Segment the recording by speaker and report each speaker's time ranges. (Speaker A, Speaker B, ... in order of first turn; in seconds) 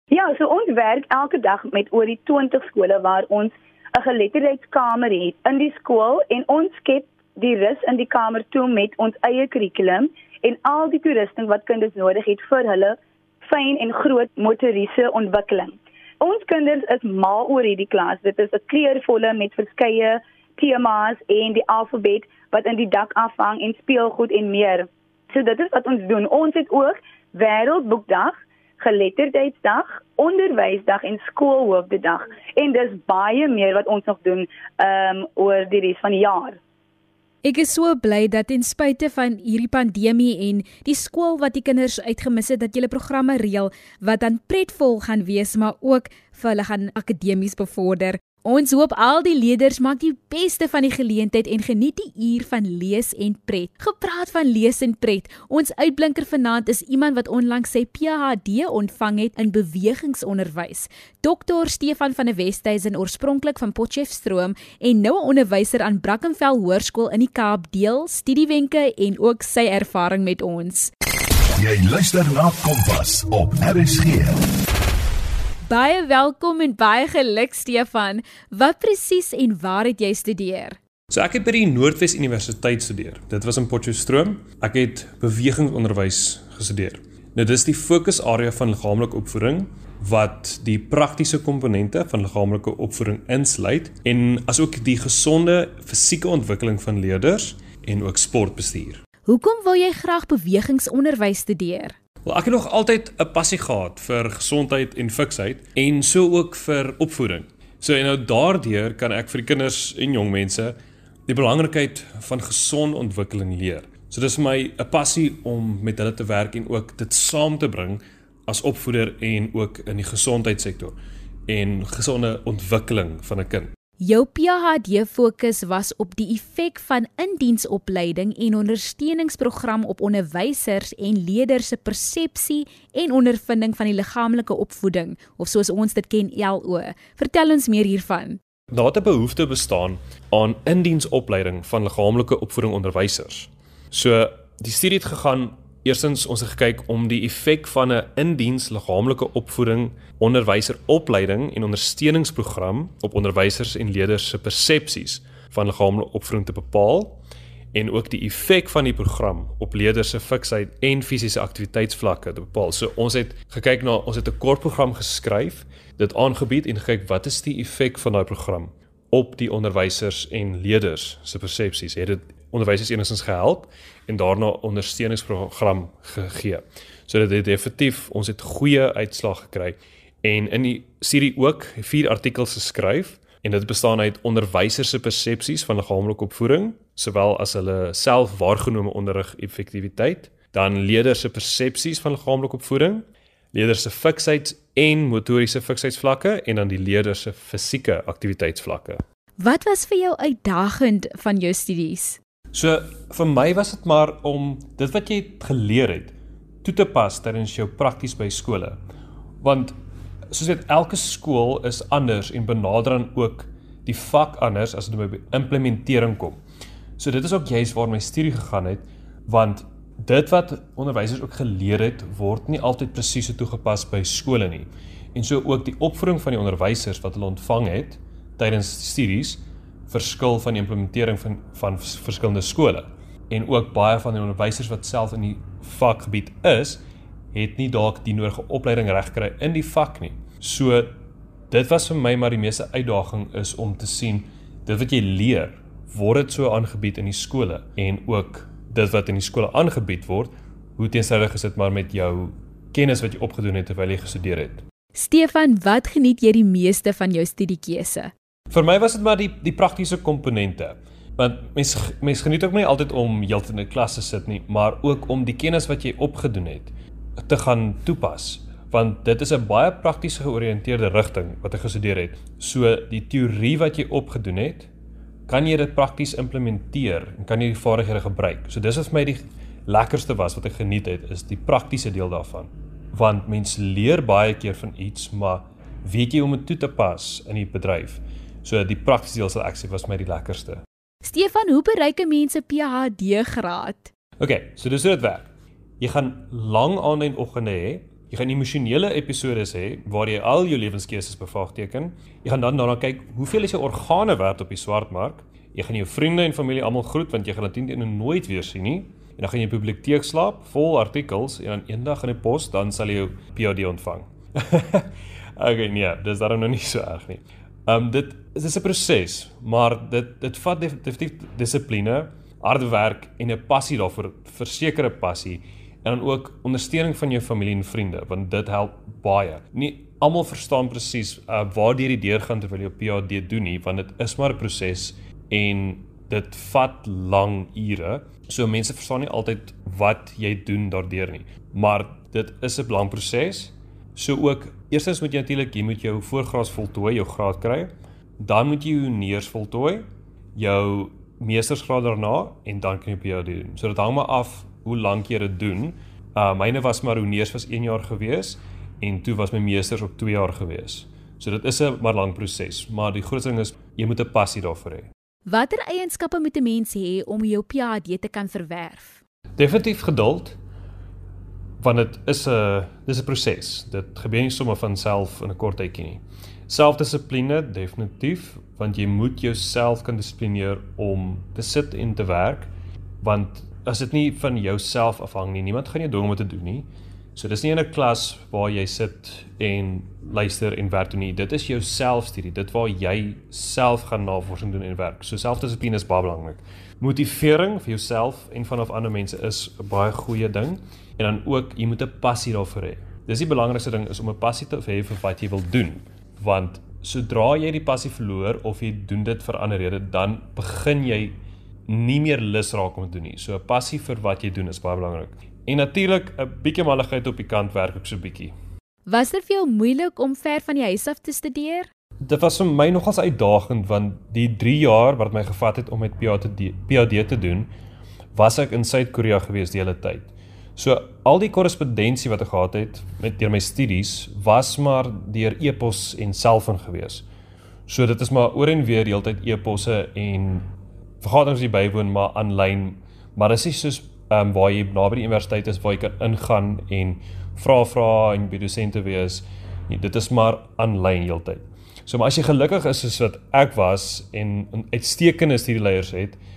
Speaker A: 0.1-36.6
Speaker B: 37.4-70.9, 75.7-80.8, 99.2-102.0, 124.0-138.4, 199.4-202.2, 254.9-258.1, 291.0-293.9, 365.3-369.0, 418.9-421.7
Speaker C: 71.6-74.4
Speaker D: 81.1-99.0, 102.2-110.8, 111.3-121.0, 121.5-123.7, 138.7-157.2, 157.7-199.0, 202.5-208.8, 209.4-209.7, 210.3-216.4, 217.0-236.8, 237.3-241.0, 241.5-254.6, 258.5-266.7, 267.2-274.7, 275.3-290.6, 294.2-364.9, 369.4-370.4, 371.6-382.5, 383.0-411.1, 411.7-418.3, 422.0-427.5, 428.1-437.0, 437.7-440.5, 441.0-456.2